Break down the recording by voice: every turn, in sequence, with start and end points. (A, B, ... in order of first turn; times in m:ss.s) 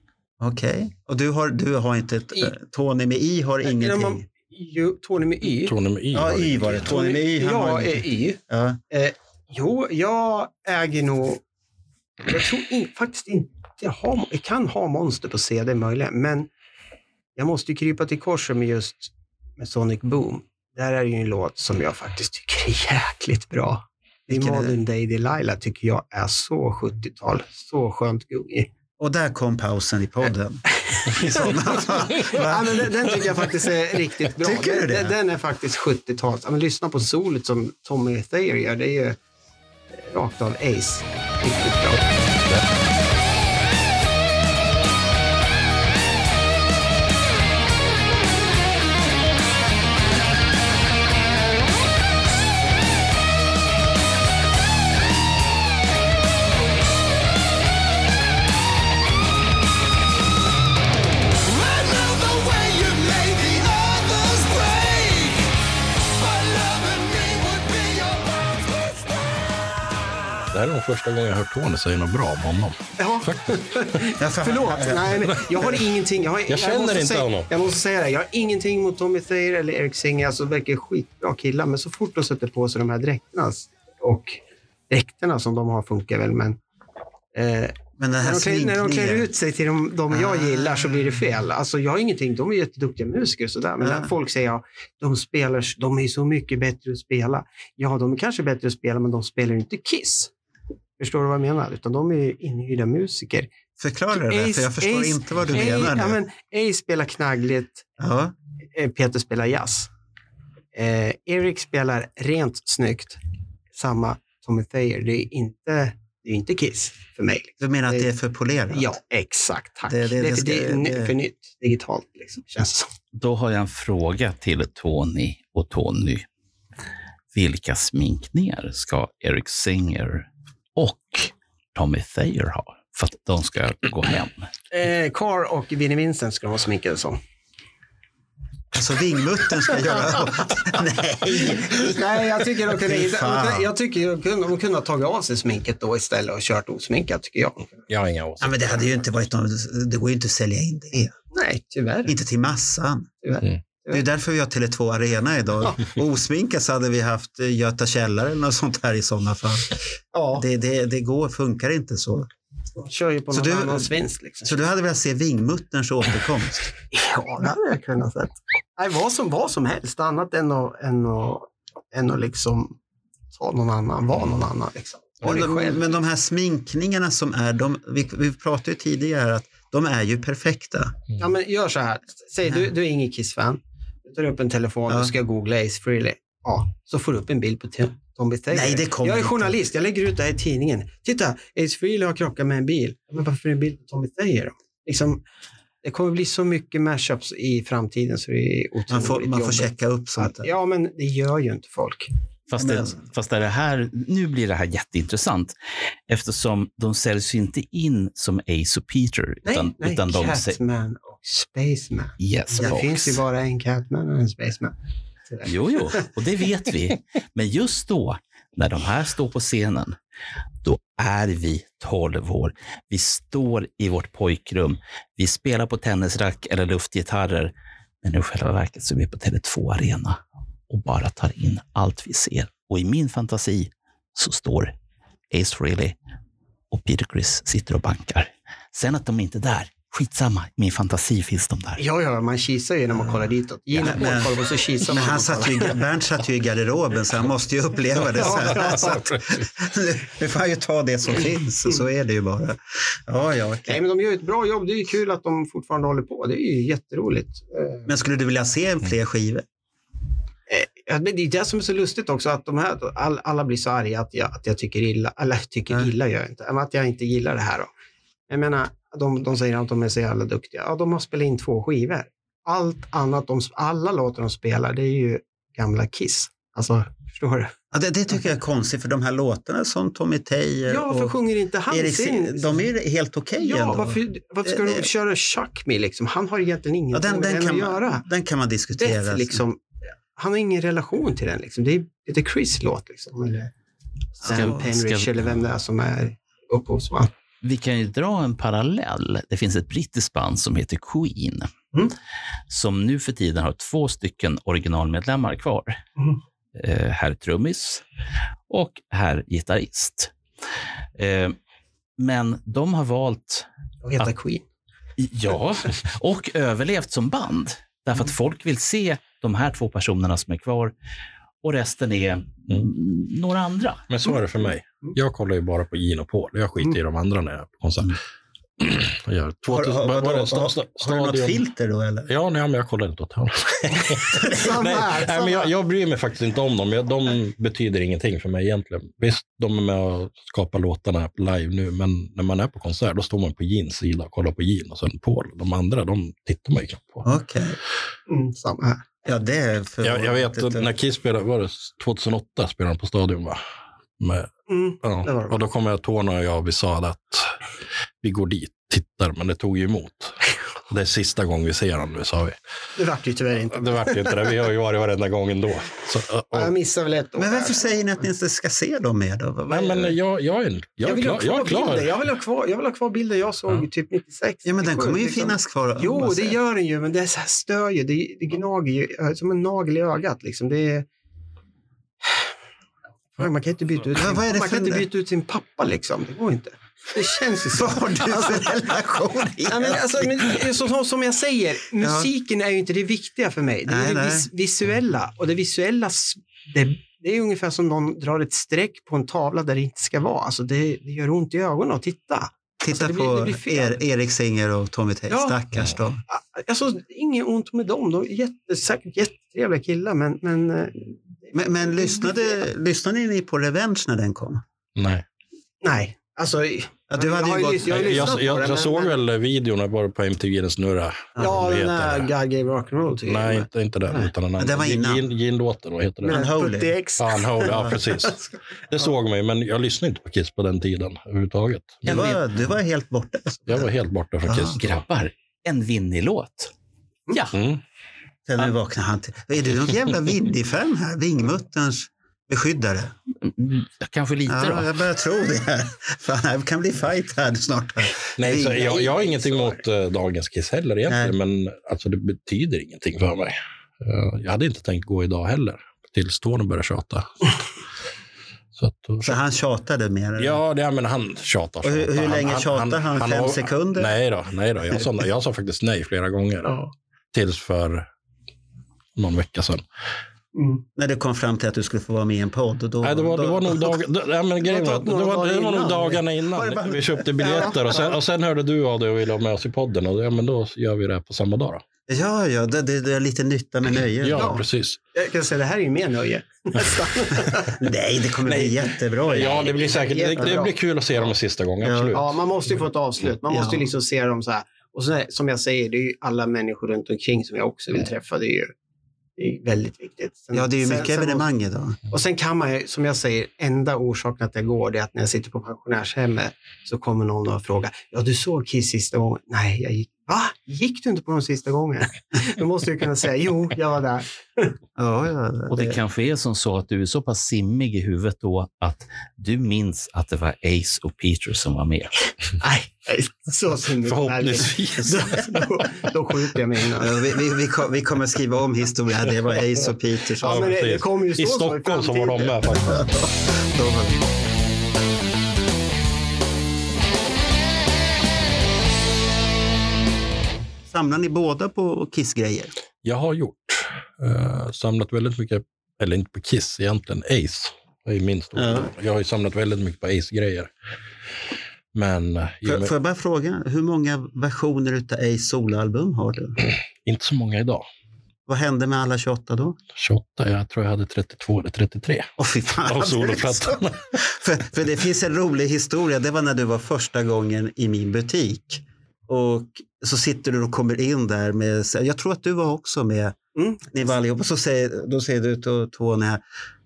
0:00.4-0:04.2 A
0:03.6-0:05.7 B
0:05.6-0:06.9 C
0:06.1-0:08.8 A
0:06.8-0:08.4 B
0:08.9-0:11.4 B
0:12.2-0:16.5 B
0:17.4-0:28.7 B
0:24.3-0:24.8 A
0:29.0-0:32.9 A
0:30.9-0:39.2 B
0:34.4-0:35.2 A
0:40.0-0:42.2 B
1:01.5-1:05.5 D
1:06.1-1:09.7 D
1:10.5-1:14.1 C
1:13.0-1:24.4 B
1:14.2-1:15.8 A
1:15.2-1:15.7 C
1:16.5-1:17.5 C
1:24.9-1:26.6 B
1:27.3-1:40.3 B
1:28.0-1:29.3 A
1:30.1-1:31.1 A
1:33.8-1:34.1 A
1:41.0-1:43.5 B
1:43.8-1:46.2 A
1:44.1-1:47.9 B
1:48.0-1:48.3 A
1:48.7-1:49.9 B
1:50.7-1:53.2 B
1:53.7-1:58.1 B
1:57.6-1:59.0 A
1:58.7-2:02.9 B
1:59.9-2:01.2 A
2:03.1-2:06.3 E
2:07.3-2:14.5 E
2:14.7-2:17.2 B
2:18.7-2:23.7 A
2:19.7-2:20.1 B
2:21.4-2:27.8 B
2:27.9-2:28.6 C
2:28.4-2:31.1 A
2:31.3-2:32.1 B
2:32.1-2:33.1 A
2:33.2-2:34.0 B
2:33.9-2:39.7 A
2:40.1-2:40.4 B
2:40.3-2:42.3 A
2:42.8-2:44.6 B
2:43.3-2:43.9 A
2:44.4-2:46.7 A
2:46.9-2:52.8 B
2:53.3-2:55.8 B
2:55.2-3:01.0 A
3:01.2-3:15.2 B
3:08.5-3:09.6 A
3:15.8-3:22.1 B
3:18.9-3:20.5 A
3:22.5-3:25.5 E
3:22.6-3:23.0 A
3:26.1-3:30.6 E
3:29.4-3:34.7 B
3:32.2-3:33.2 E
3:35.3-3:36.0 B
3:35.4-3:40.0 E
3:40.6-3:54.7 E
3:55.3-3:56.0 E
3:56.7-4:01.8 E
4:01.8-4:05.8 B
4:03.8-4:13.8 A
4:08.2-4:09.0 B
4:13.7-4:17.9 B
4:17.9-4:19.4 A
4:20.5-4:27.7 B
4:28.3-4:37.5 B
4:37.7-4:44.9 A
4:40.7-4:42.6 B
4:43.4-4:48.0 B
4:46.9-4:49.4 A
4:48.8-4:49.6 B
4:50.2-4:53.5 B
4:54.2-4:57.1 B
4:54.2-4:54.7 A
4:54.3-4:55.2 E
4:57.4-5:01.5 E
5:02.5-5:05.8 E
5:06.6-5:07.8 E
5:08.5-5:10.1 E
5:11.0-5:11.4 E
5:12.0-5:13.5 E
5:13.8-5:14.4 B
5:15.0-5:20.7 E
5:21.4-5:23.9 E
5:23.9-5:28.0 C
5:28.6-5:31.4 C
5:29.5-5:32.1 A
5:32.1-5:47.1 C
5:34.1-5:35.5 B
5:47.0-5:47.6 A
5:48.1-5:48.8 B
5:49.0-5:50.7 A
5:49.8-5:53.4 C
5:54.0-5:54.3 C
5:54.5-5:55.4 B
5:54.8-5:57.4 C
5:58.0-6:02.4 C
6:02.8-6:04.4 B
6:03.5-6:06.5 C
6:06.3-6:07.8 B
6:07.2-6:10.0 A
6:09.5-6:12.0 C
6:10.8-6:20.9 B
6:14.4-6:16.4 A
6:23.2-6:28.5 B
6:24.0-6:24.9 A
6:27.5-6:30.3 A
6:29.5-6:43.8 B
6:31.8-6:32.1 A
6:33.7-6:34.3 A
6:42.6-6:46.0 A
6:45.1-6:45.4 B
6:46.1-6:52.4 B
6:51.3-6:54.4 A
6:54.8-6:55.0 C
6:55.6-6:59.0 B
6:56.9-6:58.2 A
6:57.7-7:02.1 C
7:01.2-7:01.4 A
7:01.2-7:04.1 B
7:03.1-7:06.3 C
7:04.4-7:05.0 A
7:06.0-7:08.2 B
7:06.1-7:06.8 A
7:07.0-7:12.2 C
7:07.4-7:07.8 A
7:11.8-7:13.7 A
7:13.5-7:14.8 C
7:14.3-7:14.6 A
7:14.6-7:16.5 E
7:17.1-7:17.4 E
7:17.3-7:17.6 C
7:18.3-7:22.9 A
7:23.2-7:24.8 E
7:24.3-7:29.1 A
7:28.2-7:37.1 C
7:28.9-7:29.4 B
7:30.9-7:31.2 A
7:38.6-7:39.2 C
7:39.0-7:40.4 A
7:40.2-7:47.9 C
7:41.6-7:44.0 A
7:49.0-7:49.6 C
7:50.4-7:50.6 B
7:50.8-7:53.8 A
7:52.8-8:01.6 C
7:54.4-7:56.0 B
7:56.4-7:57.0 A
7:57.2-7:58.0 B
8:01.9-8:04.4 A
8:04.0-8:04.8 C
8:04.2-8:04.4 B
8:05.0-8:07.6 B
8:07.5-8:10.4 A
8:08.2-8:12.1 C
8:09.7-8:10.5 B
8:11.6-8:12.0 A
8:12.0-8:18.5 B
8:13.3-8:13.7 A
8:19.2-8:21.2 B
8:20.3-8:21.8 A
8:21.9-8:34.6 B
8:34.8-8:35.8 A
8:35.5-8:41.9 E
8:42.4-8:47.0 B
8:43.8-8:45.5 C
8:46.8-8:50.6 A
8:50.2-8:52.8 B
8:50.2-8:52.8 C
8:52.7-8:54.0 A
9:00.7-9:02.5 A
9:02.8-9:10.5 C
9:08.4-9:08.7 A
9:11.7-9:12.7 C
9:12.4-9:16.4 A
9:16.8-9:17.6 C
9:18.3-9:19.6 A
9:19.8-9:22.1 C
9:22.2-9:33.2 A
9:22.6-9:24.0 C
9:33.4-9:33.8 B
9:33.7-9:36.2 A